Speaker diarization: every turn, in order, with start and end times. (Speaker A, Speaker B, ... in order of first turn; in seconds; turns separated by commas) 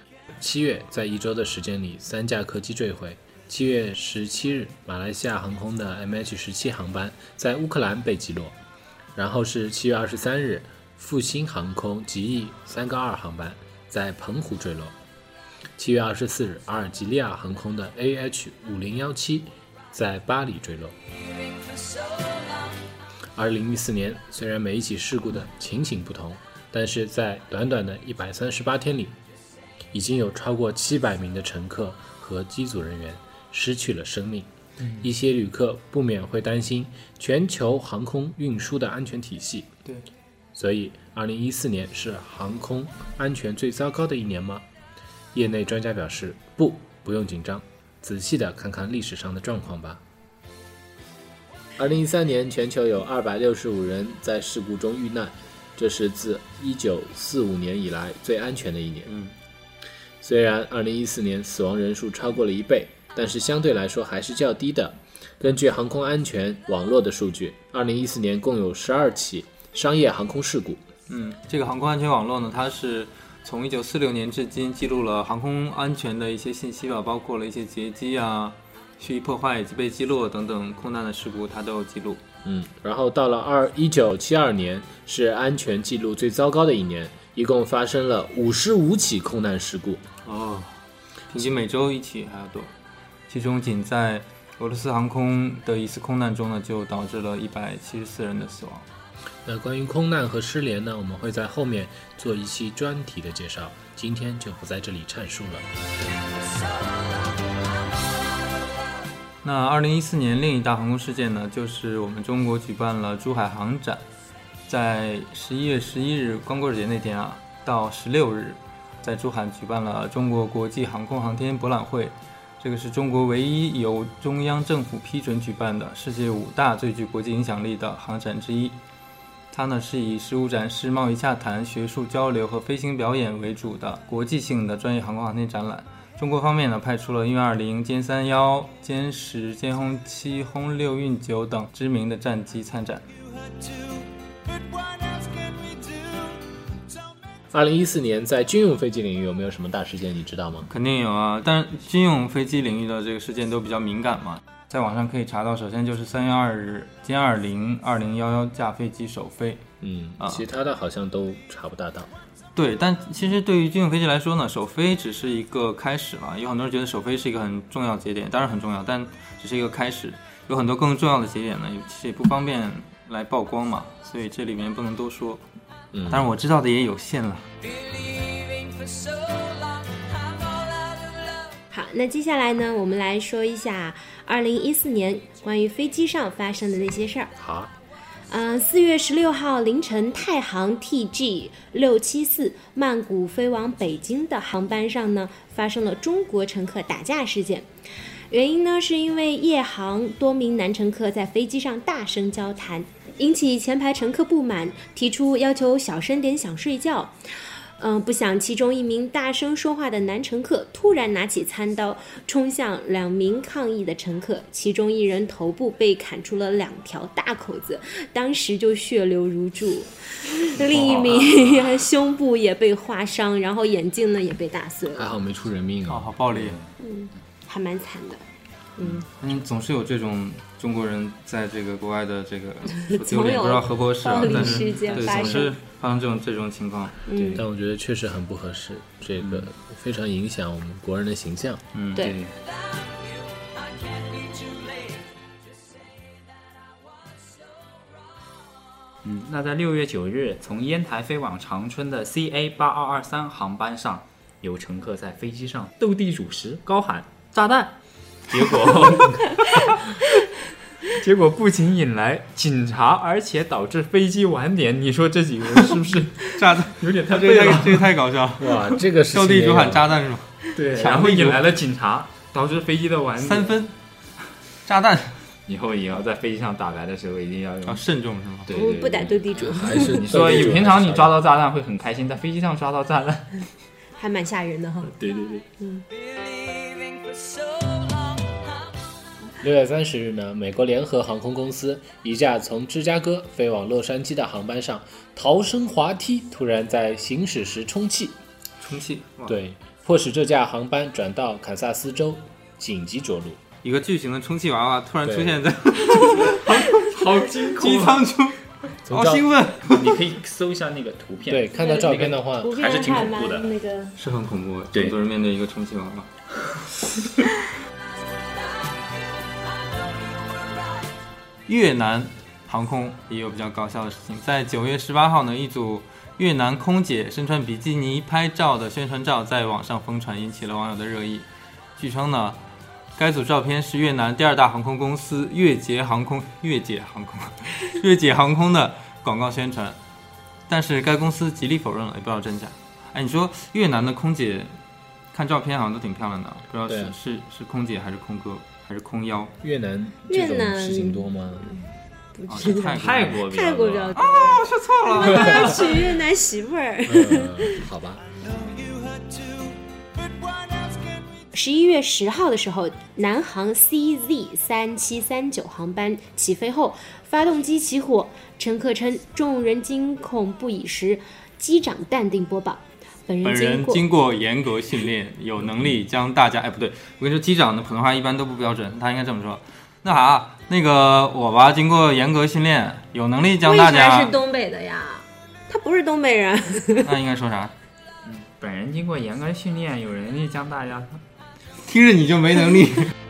Speaker A: 0.4-8.6, Speaker A: 9.2-14.9, Speaker A: 15.8-20.9, Speaker A: 23.4-29.2, Speaker A: 29.9-34.5, Speaker A: 35.0-39.7, Speaker A: 40.5-44.6, Speaker A: 45.3-50.0, Speaker A: 51.8-59.1, Speaker B: 59.1-59.3, Speaker A: 60.2-70.8, Speaker B: 71.1-82.2, Speaker A: 82.4-90.0, Speaker B: 90.2-90.7, Speaker B: 91.3-92.7, Speaker B: 93.3-98.9, Speaker A: 99.5-105.7, Speaker B: 109.4-114.0, Speaker B: 114.7-128.8, Speaker B: 129.5-143.1, Speaker C: 143.3-146.4, Speaker A: 147.5-150.7, Speaker B: 150.7-159.6, Speaker A: 159.8-162.1, Speaker B: 162.6-175.4, Speaker A: 175.9-176.3, Speaker B: 176.1-177.5, Speaker D: 181.7-187.3, Speaker A: 187.4-187.7, Speaker D: 188.3-197.7, Speaker D: 198.3-207.1, Speaker D: 207.8-225.1, Speaker E: 220.6-221.7, Speaker A: 224.9-226.1, Speaker B: 225.9-226.6, Speaker E: 226.3-226.7, Speaker D: 226.8-228.2, Speaker D: 228.8-229.1, Speaker B: 229.1-237.0, Speaker D: 232.8-235.6, Speaker D: 237.1-237.4, Speaker A: 237.2-241.6, Speaker E: 239.2-239.5, Speaker B: 241.7-242.1, Speaker E: 242.0-242.3, Speaker E: 249.0-257.8, Speaker E: 258.3-260.1, Speaker E: 260.9-267.9, Speaker B: 266.3-271.5, Speaker A: 268.4-269.9, Speaker E: 270.6-273.6, Speaker B: 273.2-273.7, Speaker B: 274.7-275.2, Speaker E: 275.5-277.8, Speaker B: 277.6-278.6, Speaker E: 278.5-283.5, Speaker D: 278.5-280.4, Speaker A: 279.3-281.1, Speaker D: 284.0-284.9, Speaker E: 284.9-285.4, Speaker D: 285.6-285.9, Speaker A: 289.4-298.2, Speaker B: 298.6-299.4, Speaker A: 299.3-303.4, Speaker B: 303.6-310.0, Speaker A: 305.0-305.4, Speaker E: 306.2-308.1, Speaker A: 308.9-309.3, Speaker E: 309.7-313.5, Speaker A: 311.3-312.6, Speaker D: 311.6-313.9, Speaker B: 314.0-316.1, Speaker B: 321.5-331.2, Speaker B: 331.8-332.4, Speaker B: 333.0-339.8, Speaker B: 340.5-344.5, Speaker B: 345.1-349.3, Speaker A: 346.7-346.9, Speaker A: 349.4-351.5, Speaker D: 350.1-351.6, Speaker D: 352.1-354.2, Speaker B: 352.3-353.2, Speaker E: 352.4-355.4, Speaker B: 353.9-355.8, Speaker D: 355.0-357.7, Speaker A: 356.9-358.1, Speaker C: 358.2-361.2, Speaker D: 361.3-373.8, Speaker B: 373.2-384.2, Speaker D: 383.4-386.9, Speaker B: 386.8-387.5, Speaker E: 388.0-391.0, Speaker B: 391.6-392.9